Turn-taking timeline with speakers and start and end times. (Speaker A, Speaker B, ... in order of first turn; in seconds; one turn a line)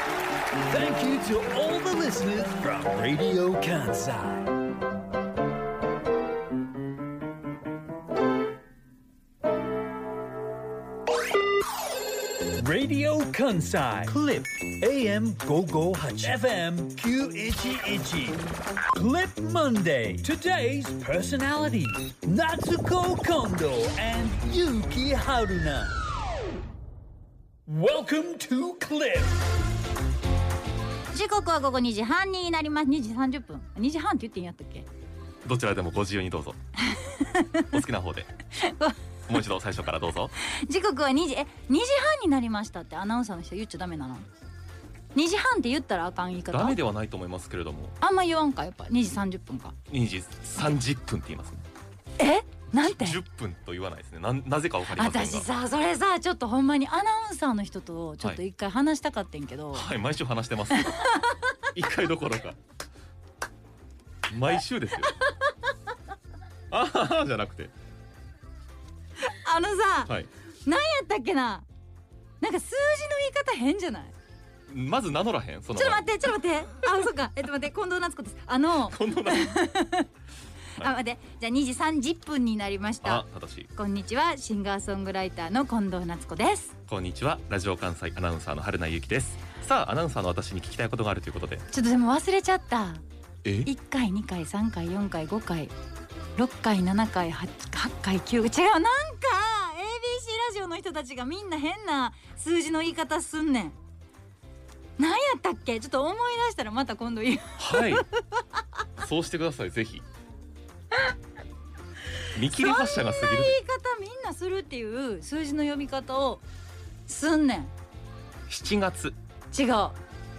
Speaker A: 0.7-4.6
Speaker A: 12.5-18.4
Speaker B: 14.1-14.4
Speaker A: 18.9-25.9
Speaker A: 27.7-29.4
Speaker C: 31.1-34.9
Speaker B: 35.4-36.6
Speaker C: 36.8-37.8
Speaker B: 37.7-38.3
Speaker C: 38.5-39.0
Speaker B: 39.3-40.3
Speaker C: 40.4-44.2
Speaker C: 45.1-46.8
Speaker B: 46.5-48.0
Speaker C: 48.0-49.7
Speaker B: 49.9-51.6
Speaker C: 52.2-53.2
Speaker B: 52.8-55.5
Speaker C: 54.9-59.9
Speaker B: 59.7-61.0
Speaker C: 60.7-61.6
Speaker B: 61.7-62.6
Speaker B: 64.3-65.1
Speaker C: 65.2-65.5
Speaker B: 66.7-67.7
Speaker C: 69.2-70.1
Speaker C: 70.7-71.7
Speaker C: 72.4-74.1
Speaker B: 74.7-76.1
Speaker C: 75.7-80.1
Speaker B: 78.8-79.6
Speaker C: 80.8-86.7
Speaker B: 83.0-83.7
Speaker B: 86.9-91.6
Speaker C: 91.7-93.0
Speaker B: 93.4-93.7
Speaker C: 93.6-95.7
Speaker C: 96.3-103.8
Speaker C: 105.0-108.6
Speaker B: 107.6-108.0
Speaker B: 109.0-110.0
Speaker C: 112.3-116.4
Speaker B: 112.3-113.6
Speaker C: 117.1-117.7
Speaker B: 118.5-119.2
Speaker C: 119.5-120.0